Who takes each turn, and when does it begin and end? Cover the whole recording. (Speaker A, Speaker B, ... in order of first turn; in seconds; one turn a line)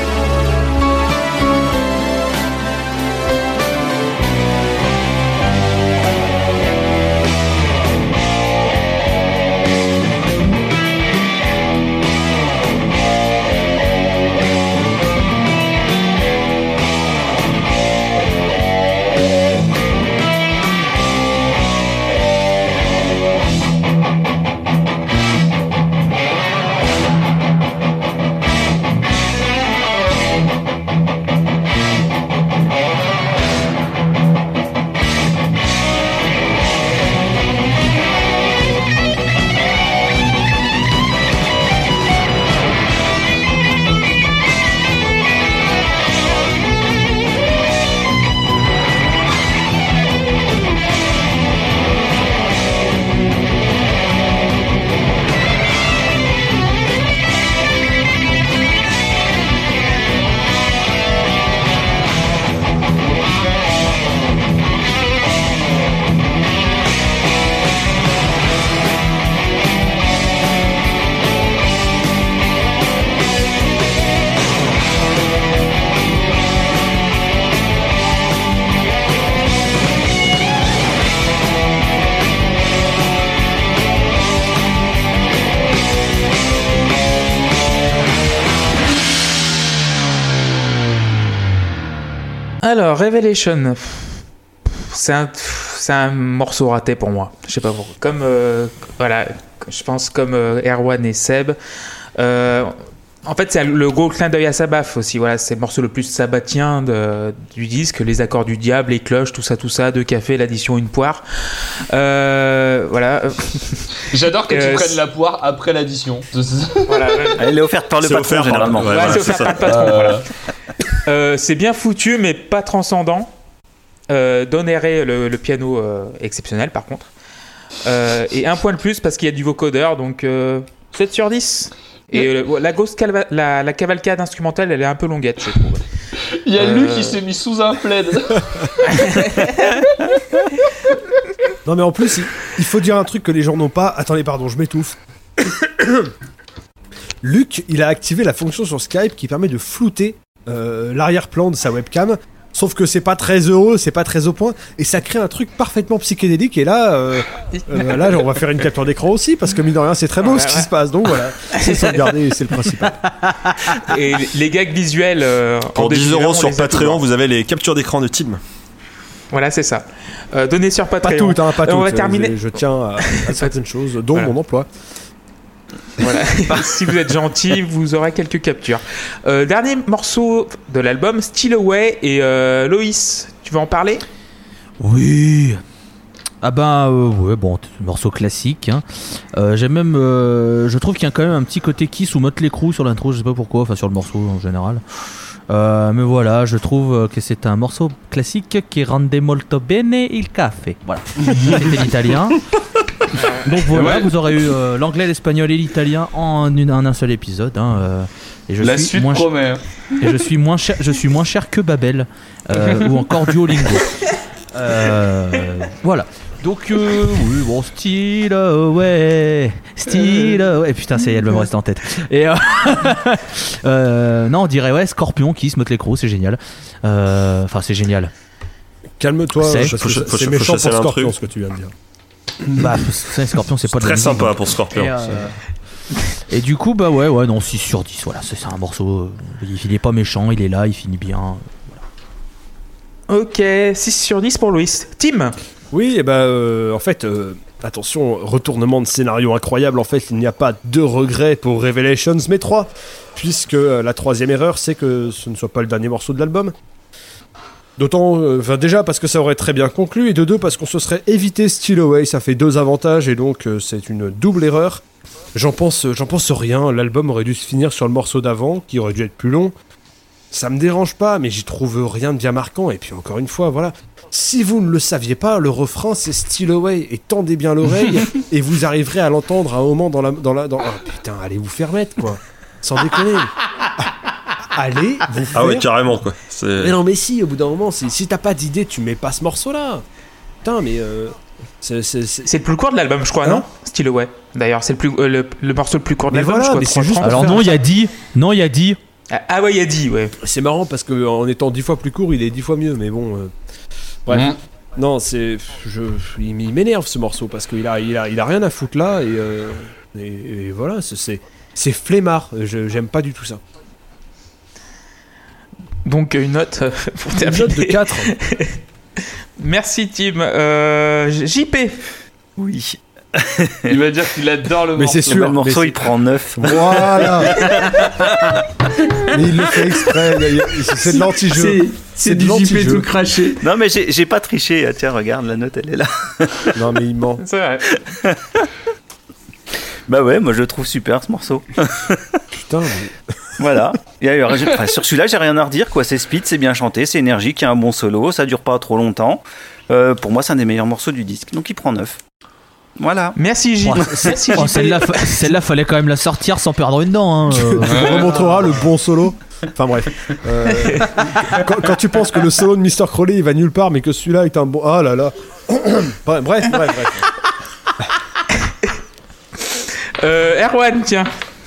Speaker A: 92.6-101.6
Speaker A: 102.2-113.9
Speaker B: 114.1-117.3
Speaker A: 114.5-115.0
Speaker A: 116.9-117.4
Speaker C: 117.4-119.3
Speaker D: 118.0-120.0
Speaker A: 118.9-120.3
Speaker B: 119.7-120.3
Speaker A: 121.0-123.3
Speaker A: 124.1-127.1
Speaker A: 127.8-135.8
Speaker B: 136.4-139.3
Speaker A: 136.6-137.2
Speaker A: 138.9-139.7
Speaker E: 141.7-146.1
Speaker E: 147.2-163.1
Speaker A: 160.2-160.7
Speaker A: 161.5-162.1
Speaker F: 163.2-163.8
Speaker A: 163.8-167.0
Speaker D: 165.8-168.4
Speaker A: 169.3-172.4
Speaker E: 171.0-174.7
Speaker A: 173.0-173.5
Speaker A: 176.0-184.0
Speaker F: 184.8-185.6
Speaker F: 186.4-194.8
Speaker F: 195.5-202.5
Speaker A: 203.2-203.4
Speaker F: 203.3-209.3
Speaker B: 203.7-204.2
Speaker B: 208.6-209.6
Speaker F: 210.0-213.9
Speaker F: 214.5-228.1
Speaker E: 229.0-231.7
Speaker F: 229.4-229.8
Speaker D: 229.5-231.2
Speaker F: 232.5-235.3
Speaker D: 233.7-235.3
Speaker F: 236.3-241.8
Speaker A: 243.1-245.3
Speaker E: 245.7-256.5
Speaker E: 257.8-269.5
Speaker E: 270.3-283.8
Speaker E: 284.5-285.7
Speaker D: 285.3-286.8
Speaker E: 286.6-289.8
Speaker E: 290.4-292.3
Speaker A: 292.3-297.6
Speaker E: 296.1-297.5
Speaker F: 297.0-298.8
Speaker A: 299.1-300.1
Speaker E: 300.2-303.3
Speaker E: 304.1-313.4
Speaker B: 304.1-304.4
Speaker A: 315.9-318.6
Speaker E: 317.2-318.1
Speaker A: 319.4-321.8
Speaker C: 322.4-323.8
Speaker B: 323.7-325.4
Speaker E: 324.8-327.4
Speaker C: 325.1-327.8
Speaker E: 329.1-332.9
Speaker G: 330.3-333.4
Speaker C: 333.4-336.7
Speaker E: 336.6-337.2
Speaker A: 337.2-337.6
Speaker C: 337.7-338.4
Speaker C: 339.9-342.2
Speaker E: 342.4-342.9
Speaker C: 343.4-352.0
Speaker C: 352.8-353.2
Speaker A: 353.2-355.3
Speaker F: 353.6-357.9
Speaker C: 353.7-354.0
Speaker E: 357.3-367.1
Speaker B: 357.7-358.6
Speaker A: 370.0-371.1